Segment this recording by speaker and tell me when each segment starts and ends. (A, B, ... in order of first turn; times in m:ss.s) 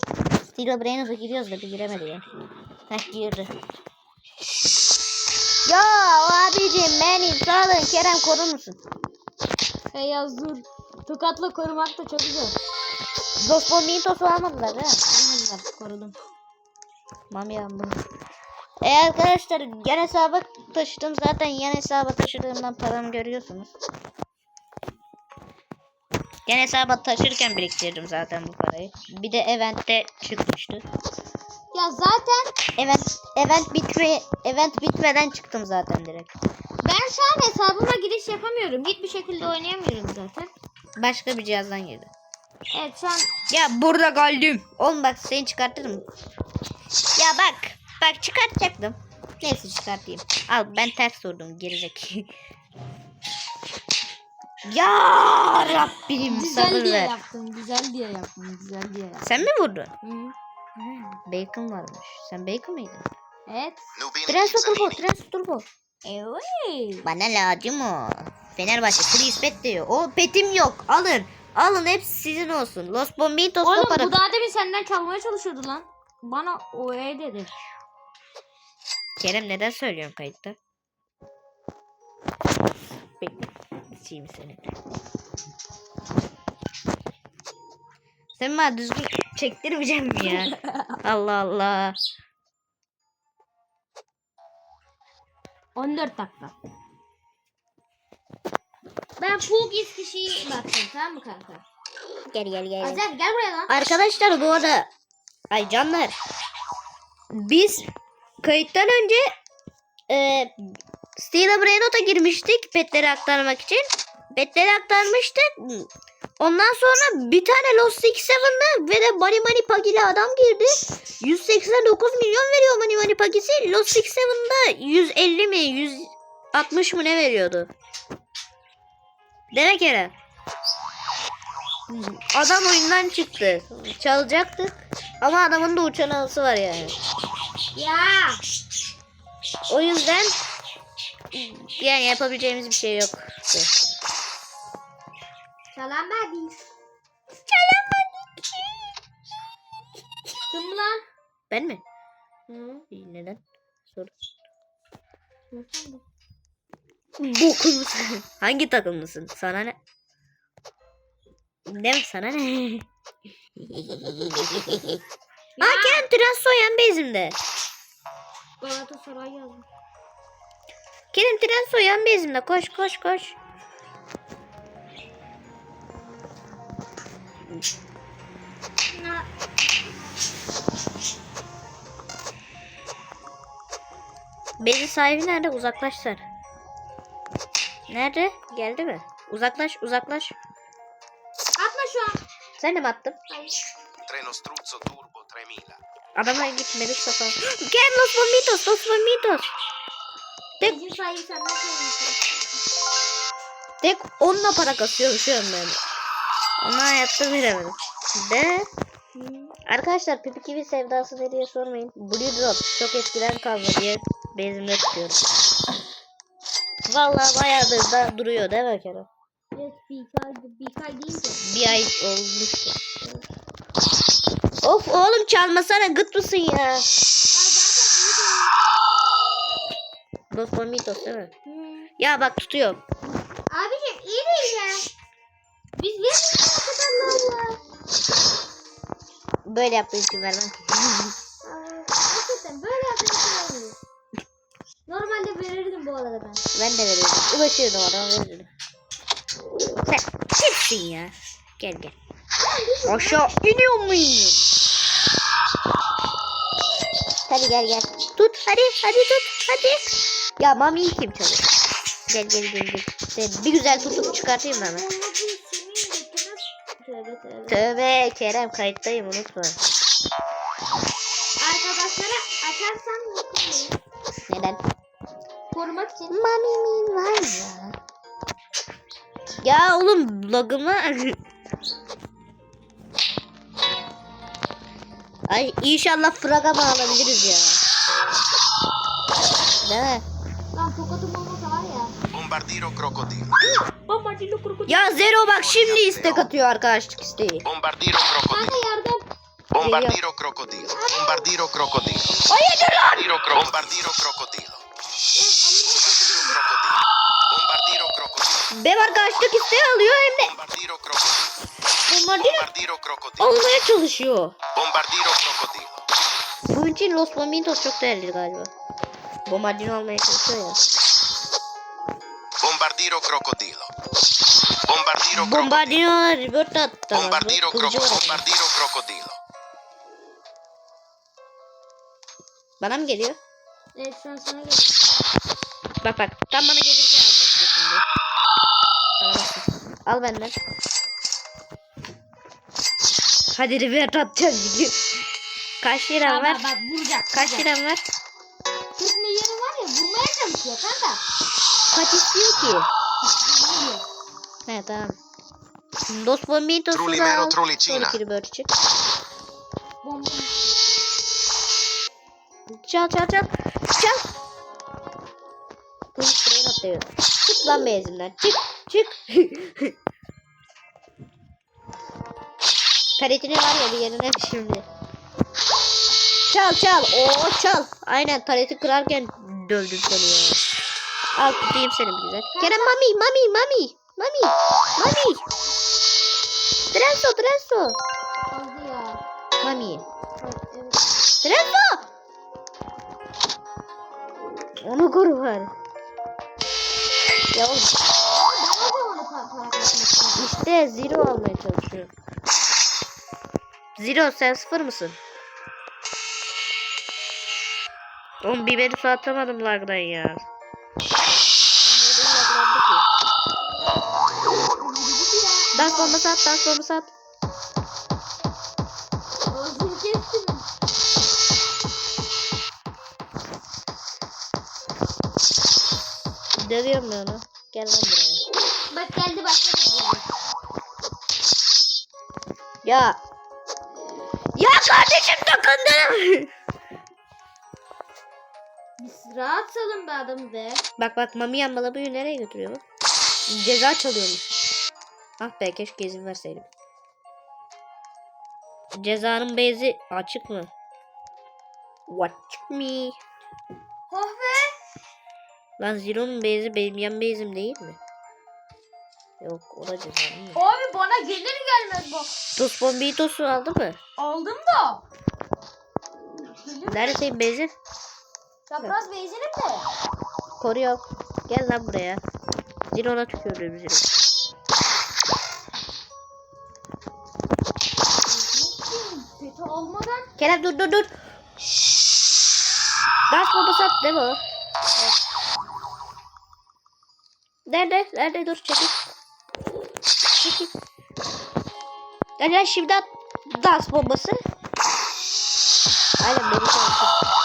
0:00.5-0:02.2 A
0:02.9-0:03.5 A
0:05.6-0:08.8 A
0:09.9-0:12.6 B
0:13.4-0:15.0 A
0:15.1-0:16.2 B
0:17.3-0:18.0 A
0:18.8-0:23.7 A
0:26.4-0:30.8 A
0:31.7-0:32.6 B
0:32.8-0:36.3 A
0:36.8-0:40.5 B
0:41.0-0:42.1 A
0:42.7-0:43.3 B
0:43.5-0:46.0 A
0:47.2-0:52.3 A
0:54.6-0:57.1 A
0:56.3-0:59.4 B
0:59.2-0:59.9 A
1:00.0-1:01.2 B
1:01.2-1:03.0 A
1:03.5-1:03.9 B
1:03.9-1:05.1 C
1:04.3-1:05.6 A
1:06.0-1:07.1 B
1:07.0-1:14.2 A
1:13.6-1:17.6 B
1:19.2-1:20.6 A
1:23.2-1:24.6 A
1:28.4-1:32.0 A
1:30.2-1:30.8 B
1:35.8-1:36.5 B
1:39.2-1:41.6 B
1:42.3-1:43.0 A
1:42.8-1:43.8 B
1:43.7-1:44.9 A
1:45.5-1:46.2 A
1:47.3-1:47.9 A
1:48.4-1:49.2 A
1:50.1-1:50.5 A
1:51.2-1:55.9 A
1:56.4-2:07.7 A
2:09.5-2:10.1 A
2:11.9-2:17.0 A
2:17.7-2:18.4 B
2:19.7-2:20.4 A
2:21.3-2:23.7 A
2:25.7-2:26.6 B
2:27.5-2:28.4 A
2:30.5-2:31.0 B
2:31.5-2:31.8 A
2:32.5-2:32.8 B
2:32.9-2:33.4 A
2:35.5-2:36.0 B
2:37.2-2:39.8 A
2:41.7-2:42.8 A
2:43.6-2:45.0 A
2:45.6-2:46.1 B
2:45.6-2:47.4 A
2:48.6-2:49.6 B
2:51.1-2:53.4 A
2:58.9-2:59.3 B
3:04.6-3:06.2 A
3:07.9-3:10.3 A
3:11.6-3:12.2 B
3:12.6-3:13.1 A
3:13.3-3:13.6 B
3:14.0-3:15.8 C
3:16.2-3:19.5 A
3:20.6-3:22.6 B
3:23.8-3:25.8 A
3:26.6-3:28.7 A
3:29.1-3:29.5 B
3:29.7-3:35.2 A
3:36.8-3:39.1 A
3:39.5-3:41.8 B
3:41.4-3:42.8 A
3:43.0-3:43.3 B
3:44.6-3:46.8 A
3:47.3-3:48.5 B
3:50.3-3:51.3 A
3:51.4-3:51.9 B
3:52.0-3:52.8 A
3:53.5-3:54.9 B
3:55.8-3:57.6 B
3:59.4-4:01.1 A
4:01.4-4:03.8 B
4:04.9-4:06.4 B
4:06.5-4:08.5 A
4:09.7-4:11.9 A
4:12.4-4:13.3 B
4:12.8-4:14.5 A
4:17.3-4:21.4 A
4:22.1-4:24.8 A
4:23.6-4:27.6 B
4:27.5-4:29.6 A
4:31.4-4:33.8 B
4:34.3-4:34.6 A
4:35.5-4:36.2 B
4:36.1-4:37.8 A
4:39.4-4:41.2 A
4:45.3-4:47.6 A
4:46.8-4:47.3 C
4:49.6-4:50.0 A
4:50.5-4:51.9 B
4:52.1-4:53.3 C
4:53.6-4:55.0 B
4:54.7-4:57.4 A
4:55.2-4:56.3 C
4:57.4-4:58.6 C
4:58.3-4:59.0 B
4:59.5-5:02.2 C
4:59.6-5:00.0 A
5:00.7-5:01.3 B
5:02.3-5:03.2 A
5:02.9-5:04.6 C
5:05.1-5:06.5 B
5:05.6-5:08.5 C
5:08.5-5:10.3 A
5:10.2-5:11.4 C
5:11.9-5:12.4 A
5:12.2-5:13.4 C
5:13.2-5:14.3 A
5:14.5-5:15.8 C
5:16.5-5:18.5 A
5:19.2-5:20.6 A
5:22.4-5:23.7 C
5:24.6-5:25.8 C
5:25.1-5:28.2 A
5:26.9-5:29.2 C
5:32.6-5:33.2 A
5:33.7-5:35.1 B
5:35.8-5:37.8 A
5:39.0-5:40.4 A
5:43.3-5:44.8 A
5:45.6-5:46.4 A
5:46.0-5:47.5 B
5:47.1-5:47.8 A
5:48.8-5:51.0 B
5:51.7-5:52.7 A
5:53.0-5:53.8 B
5:54.5-5:55.0 A
5:55.9-5:58.5 A
5:56.7-5:58.0 C
5:59.8-6:00.5 B
6:02.5-6:04.0 A
6:05.9-6:09.7 A
6:13.0-6:14.6 A
6:16.3-6:20.4 A
6:21.1-6:25.2 A
6:22.3-6:22.8 B
6:26.7-6:27.8 A
6:28.3-6:29.0 B
6:29.4-6:29.8 A
6:30.2-6:30.9 B
6:31.2-6:31.9 A
6:34.6-6:35.5 A
6:37.3-6:37.8 A
6:38.1-6:40.4 B
6:40.2-6:41.9 A
6:43.8-6:45.0 A
6:48.2-6:50.2 A
6:51.6-6:52.8 A
6:54.5-6:56.0 B
6:55.5-6:56.9 A
6:59.3-7:00.4 B
7:06.4-7:08.2 A
7:08.7-7:10.1 B
7:12.6-7:13.0 A
7:14.3-7:16.3 A
7:18.8-7:20.6 B
7:20.8-7:22.6 A
7:23.3-7:24.2 A
7:25.2-7:26.5 A
7:28.7-7:30.5 A
7:31.9-7:33.0 A
7:33.9-7:34.5 B
7:35.6-7:37.8 A
7:39.2-7:40.4 A
7:40.3-7:42.1 B
7:42.4-7:43.8 A
7:44.0-7:44.8 B
7:46.3-7:47.0 B
7:46.7-7:47.5 A
7:48.5-7:49.6 B
7:50.4-7:52.0 A
7:52.7-7:53.9 A
7:58.0-8:00.1 B
8:00.2-8:00.9 A
8:03.1-8:04.2 A
8:07.5-8:08.8 A
8:10.1-8:10.5 A
8:12.2-8:14.2 A
8:16.0-8:17.0 A